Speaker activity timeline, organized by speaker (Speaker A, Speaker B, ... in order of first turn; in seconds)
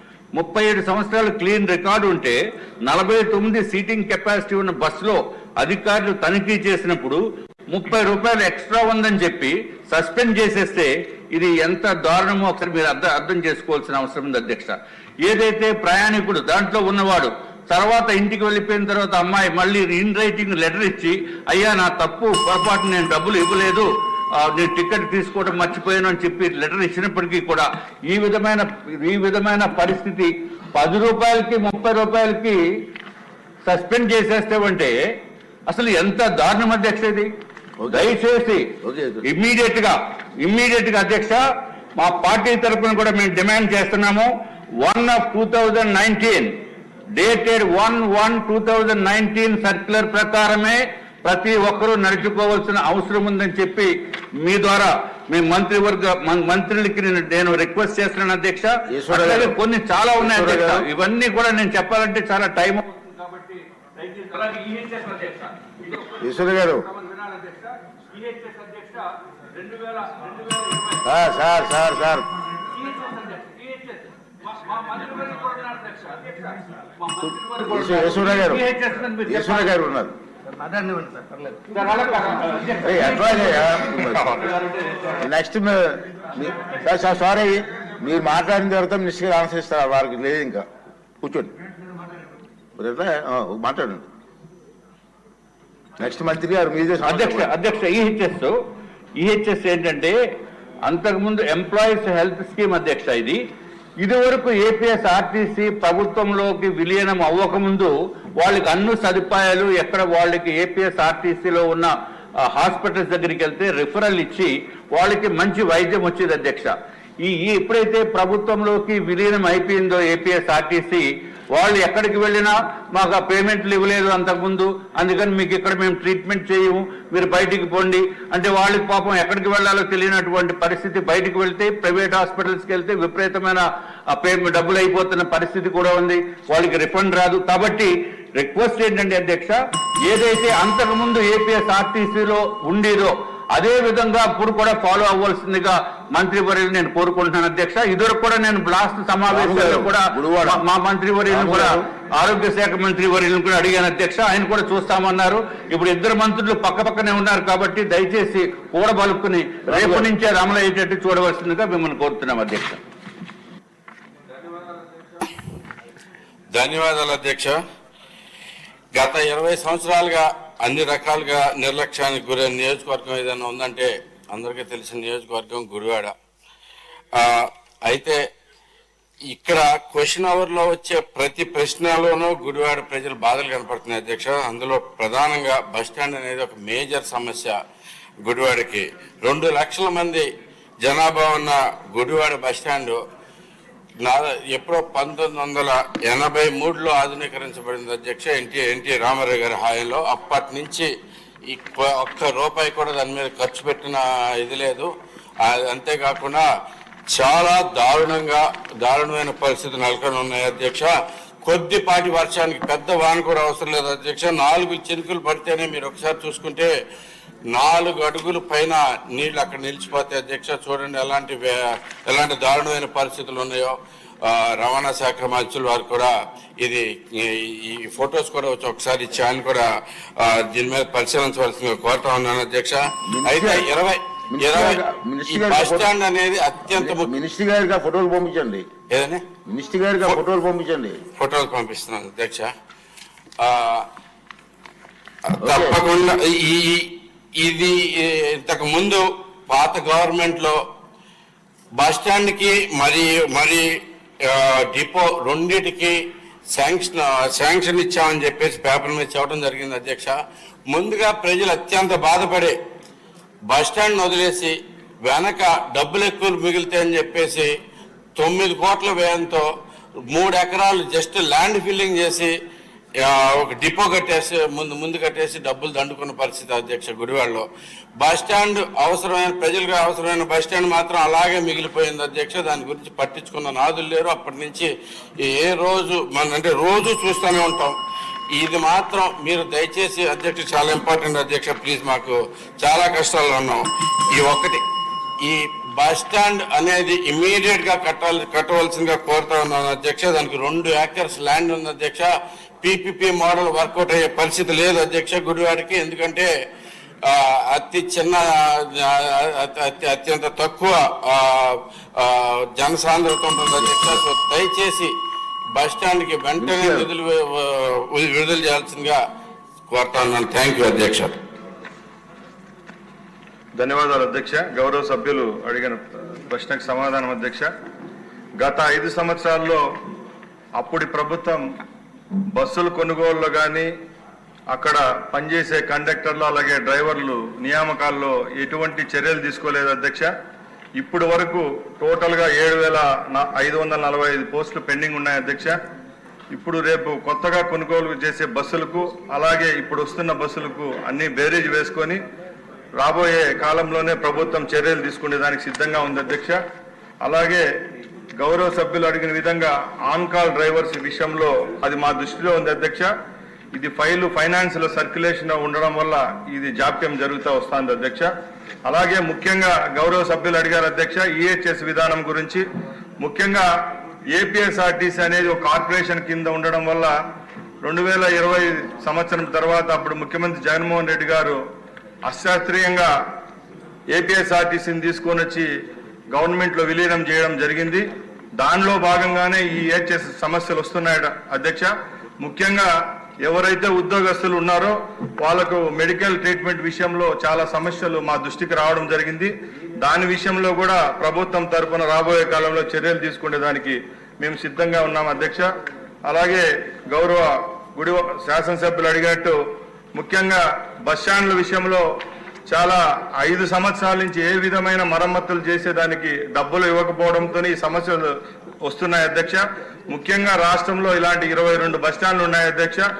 Speaker A: 0.3-32.9, 33.6-35.0, 35.7-37.3, 37.9-38.7, 39.2-41.4, 42.0-46.6, 47.2-71.7, 72.6-79.8, 80.7-85.1, 97.1-98.6, 99.2-100.2, 100.8-103.4, 104.0-162.8
Speaker B: 37.8-38.2, 38.8-39.2, 58.9-59.6, 60.2-60.9, 66.1-66.9, 71.0-72.2, 77.7-78.7, 79.2-80.1, 82.8-84.4, 85.2-90.6, 91.2-91.5, 92.8-94.1, 96.0-97.5, 149.3-150.6, 151.3-151.8, 159.7-160.1, 233.1-233.7, 234.3-235.9, 236.7-238.7, 239.5-241.0, 245.4-245.8, 313.7-314.0, 316.4-316.9
Speaker C: 166.5-167.6, 168.9-176.1, 177.1-178.2, 179.3-187.6, 188.2-190.2, 190.8-193.0, 194.0-200.9, 201.5-204.9, 205.4-206.4, 207.1-210.9, 211.4-216.7, 217.5-229.7, 230.2-237.1, 238.9-239.2, 241.2-242.5, 243.4-243.9, 245.3-250.6, 251.8-253.7, 254.2-256.0, 256.5-260.2, 260.7-262.6, 263.5-267.5, 268.2-269.5, 270.1-272.3, 273.0-277.5, 278.0-284.7, 285.2-287.8, 288.4-294.6, 295.2-302.1, 302.6-306.3, 307.1-314.9, 315.5-319.0, 319.7-321.1
Speaker D: 323.6-327.5, 328.4-329.6, 330.6-331.4, 332.3-333.7, 334.5-340.1, 340.8-345.6, 346.3-352.0, 352.8-356.4, 357.0-357.4, 358.2-362.9, 363.5-368.1, 368.6-372.4, 373.0-373.5, 374.1-376.9, 377.6-381.4, 382.1-382.9, 383.9-385.5, 386.1-387.9, 388.4-392.7, 393.2-405.5, 406.1-409.4, 409.9-411.8, 412.5-418.1, 418.6-422.9